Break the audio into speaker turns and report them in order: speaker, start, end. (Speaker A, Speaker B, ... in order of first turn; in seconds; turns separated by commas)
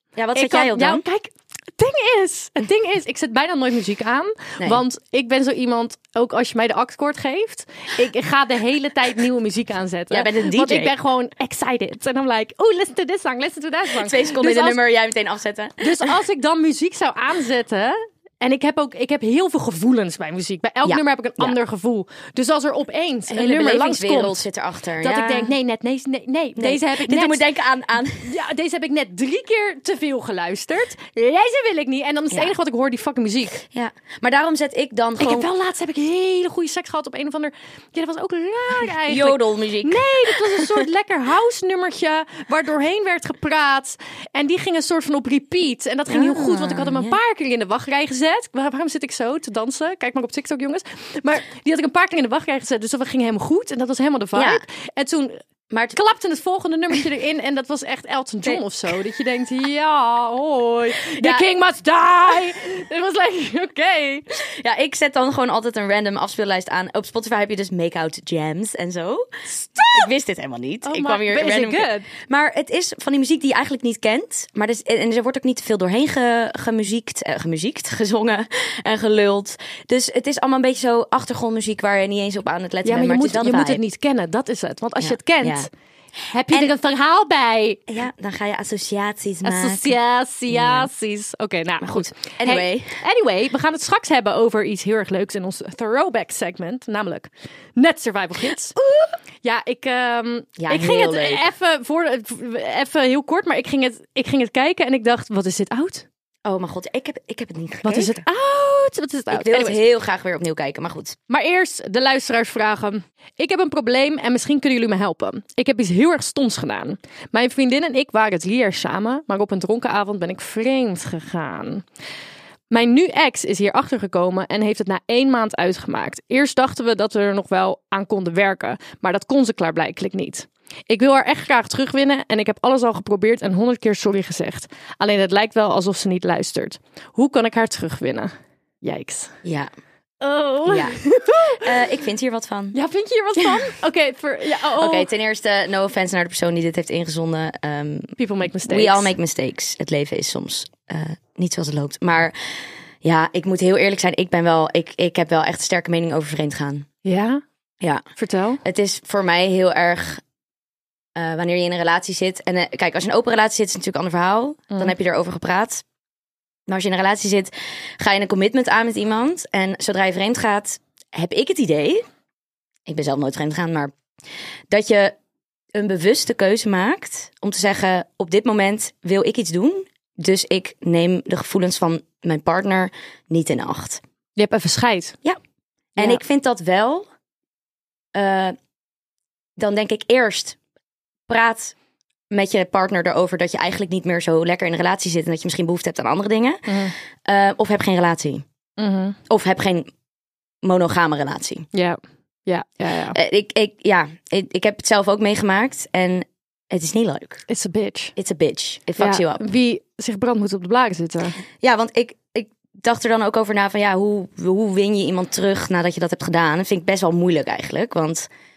Speaker A: 0.1-1.0, Speaker B: 0.3-14.8, Speaker A: 10.1-10.9, Speaker A: 13.9-16.2, Speaker B: 15.8-24.4, Speaker A: 20.8-21.6, Speaker A: 23.3-25.5, Speaker B: 25.0-27.4, Speaker A: 26.6-28.3, Speaker B: 28.2-33.6, Speaker A: 33.7-35.5, Speaker B: 35.2-55.4, Speaker A: 39.1-40.9, Speaker A: 46.1-47.2, Speaker A: 54.3-54.6, Speaker A: 55.7-56.0, Speaker B: 55.9-64.4, Speaker A: 61.2-61.5, Speaker A: 64.5-69.3, Speaker B: 69.6-70.1, Speaker A: 69.8-83.8, Speaker B: 70.8-72.1, Speaker B: 82.8-85.7, Speaker A: 85.0-85.7, Speaker B: 86.3-87.8, Speaker A: 87.9-90.0, Speaker B: 89.4-98.8, Speaker A: 90.5-90.9, Speaker A: 91.8-93.0, Speaker B: 99.4-106.0, Speaker A: 100.6-101.5, Speaker A: 106.5-108.2, Speaker B: 107.8-109.8, Speaker A: 109.3-111.2, Speaker B: 111.3-121.8, Speaker B: 122.7-139.4, Speaker A: 139.4-139.7, Speaker B: 140.2-141.6, Speaker A: 140.7-142.8, Speaker B: 142.7-145.1, Speaker A: 143.4-143.7, Speaker A: 144.8-148.1, Speaker B: 148.2-149.1, Speaker A: 148.7-152.4, Speaker A: 153.0-156.9, Speaker B: 157.1-157.4, Speaker B: 158.2-158.6, Speaker A: 158.6-160.2, Speaker A: 161.2-165.8, Speaker A: 166.7-172.1, Speaker A: 172.9-173.9, Speaker A: 174.7-175.2, Speaker A: 175.7-184.0, Speaker B: 184.4-185.2, Speaker A: 186.0-187.1, Speaker A: 188.1-188.6, Speaker A: 189.6-190.6, Speaker A: 191.3-191.8, Speaker A: 192.3-198.4, Speaker B: 196.7-196.9, Speaker B: 198.8-199.2, Speaker A: 199.3-199.9, Speaker A: 200.6-201.7, Speaker B: 201.7-203.2, Speaker A: 203.1-207.4, Speaker B: 207.5-208.1, Speaker A: 208.2-209.4, Speaker B: 209.0-211.4, Speaker A: 211.6-218.3